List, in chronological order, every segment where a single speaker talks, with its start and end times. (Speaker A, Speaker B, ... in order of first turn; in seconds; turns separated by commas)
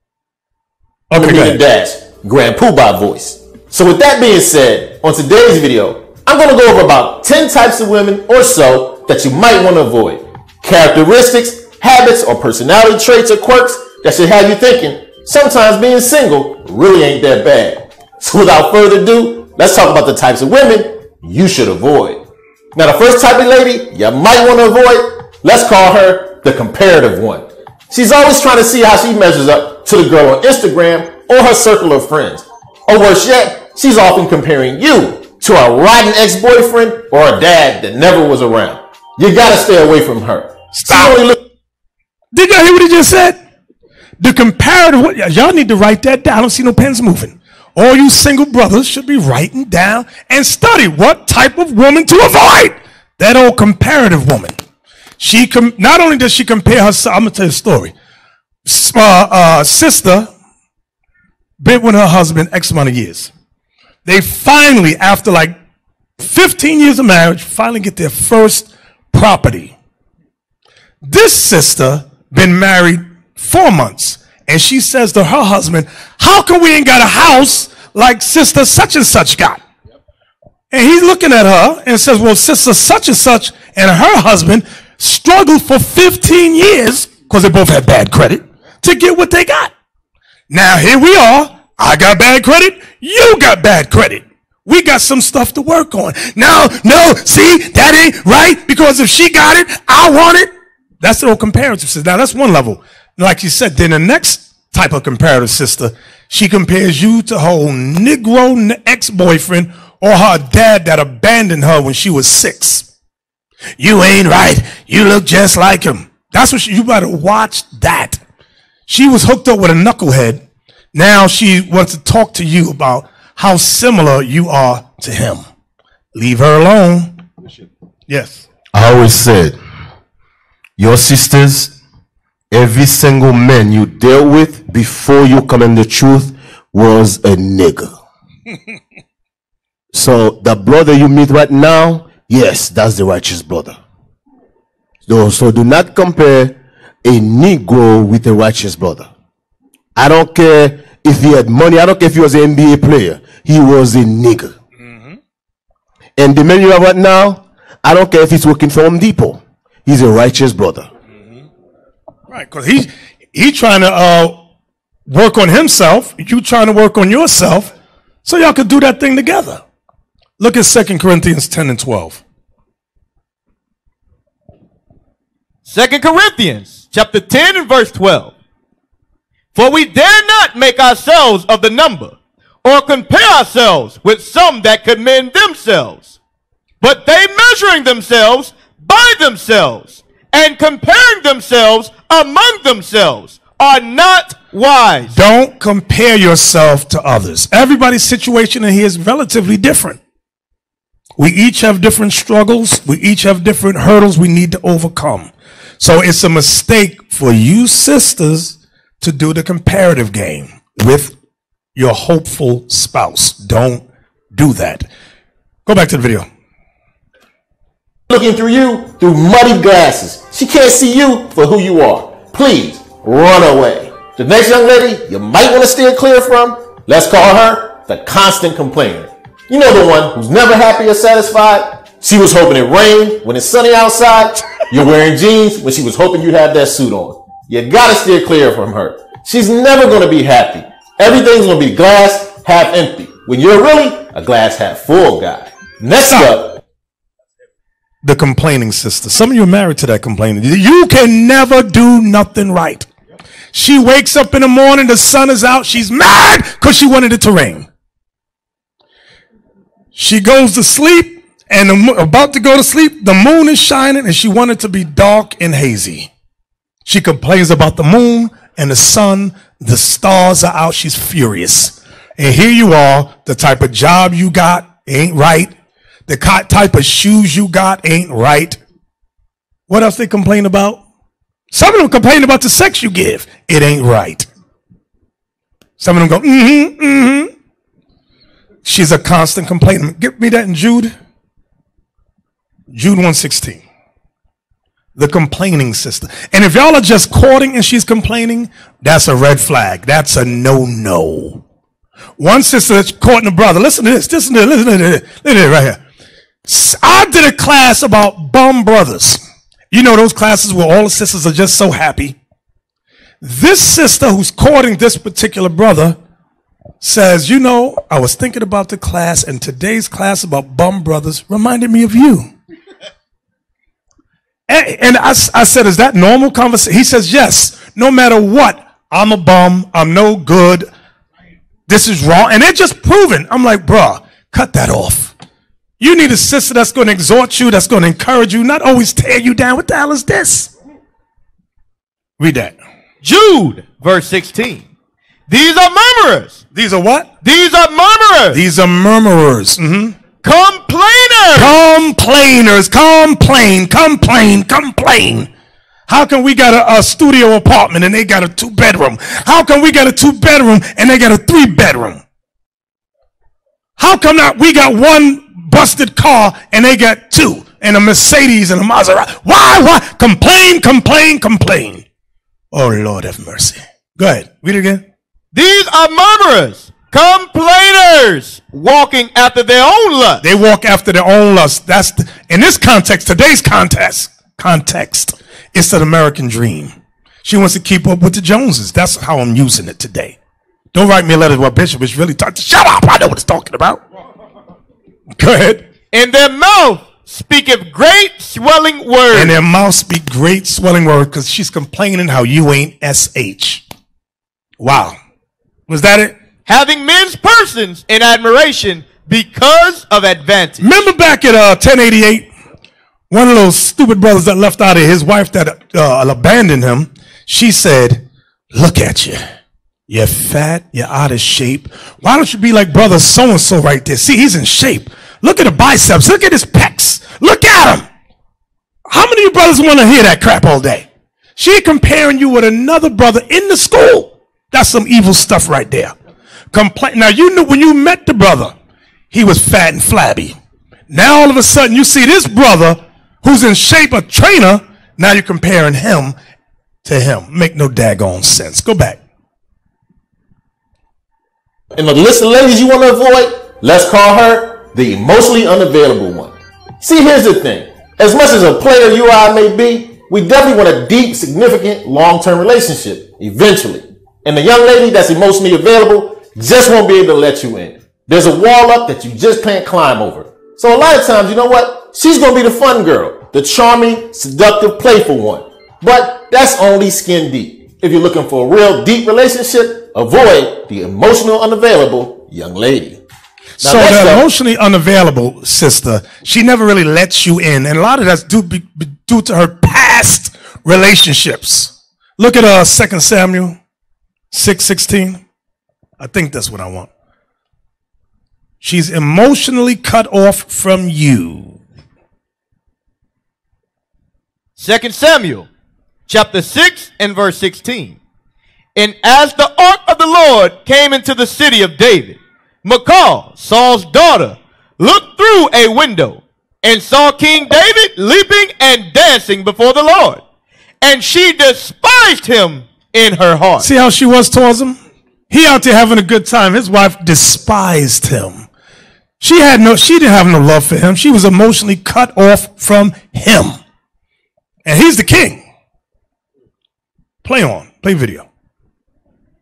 Speaker A: 1.1-1.6, Speaker B: 1.1-22.2, Speaker B: 22.8-41.4, Speaker A: 40.7-41.3, Speaker A: 42.3-43.4, Speaker A: 44.2-54.6, Speaker A: 55.2-57.9, Speaker A: 58.6-60.3, Speaker A: 61.6-63.3, Speaker A: 64.0-65.6, Speaker A: 66.2-69.8, Speaker A: 71.0-79.6, Speaker A: 80.7-89.7, Speaker A: 90.5-112.9, Speaker A: 113.8-118.2, Speaker A: 118.9-125.5, Speaker A: 126.1-127.2, Speaker A: 128.1-128.5, Speaker C: 128.7-129.6, Speaker C: 130.8-131.8, Speaker C: 132.5-137.9, Speaker C: 139.9-143.8, Speaker C: 145.1-149.1, Speaker C: 150.0-154.6, Speaker A: 154.8-155.2, Speaker C: 156.2-160.9, Speaker A: 162.3-164.4, Speaker A: 165.1-167.7, Speaker A: 168.2-169.6, Speaker A: 170.4-172.2, Speaker D: 175.7-178.3, Speaker D: 179.5-186.2, Speaker D: 186.8-195.2, Speaker A: 195.1-200.0, Speaker A: 201.2-211.2, Speaker A: 211.8-214.9, Speaker A: 215.7-216.3, Speaker B: 218.1-246.6, Speaker A: 246.0-246.4, Speaker A: 248.0-252.9, Speaker A: 253.5-257.7, Speaker A: 259.9-266.1, Speaker A: 266.9-275.5, Speaker A: 276.1-278.6, Speaker A: 279.7-280.8, Speaker A: 281.5-284.3, Speaker A: 285.8-287.3, Speaker A: 288.6-290.9, Speaker A: 292.7-293.6, Speaker A: 295.0-301.4, Speaker A: 302.2-305.8, Speaker A: 306.4-309.2, Speaker A: 309.7-312.2, Speaker A: 313.2-316.0, Speaker A: 316.8-322.3, Speaker A: 324.5-330.7, Speaker A: 331.7-335.1, Speaker A: 335.8-340.5, Speaker A: 342.2-342.6, Speaker D: 343.0-344.7, Speaker D: 345.3-346.4, Speaker A: 346.5-347.1, Speaker D: 347.2-348.4, Speaker A: 348.3-350.0, Speaker D: 350.2-351.6, Speaker A: 351.4-355.3, Speaker A: 355.9-362.0, Speaker A: 363.8-371.9, Speaker A: 372.5-374.9, Speaker D: 375.3-380.2, Speaker A: 380.2-390.2, Speaker A: 390.7-393.8, Speaker A: 395.1-395.7, Speaker D: 395.9-399.4, Speaker A: 399.1-403.6, Speaker A: 404.6-405.0, Speaker A: 405.7-406.2, Speaker D: 406.5-410.8, Speaker A: 410.6-412.3, Speaker A: 413.1-419.2, Speaker A: 419.9-427.9, Speaker A: 428.9-436.0, Speaker A: 436.5-438.5, Speaker A: 439.1-440.4, Speaker A: 440.9-446.2, Speaker A: 446.8-449.0, Speaker B: 451.7-483.0, Speaker A: 483.6-493.6, Speaker B: 483.6-484.2, Speaker A: 494.3-495.2, Speaker A: 496.0-496.9, Speaker A: 498.6-501.6, Speaker D: 504.6-505.5, Speaker D: 506.1-508.0, Speaker D: 508.8-520.2, Speaker D: 520.8-523.7, Speaker A: 523.6-524.8, Speaker A: 525.3-528.5, Speaker A: 529.2-533.6, Speaker A: 534.6-535.5, Speaker A: 537.2-538.3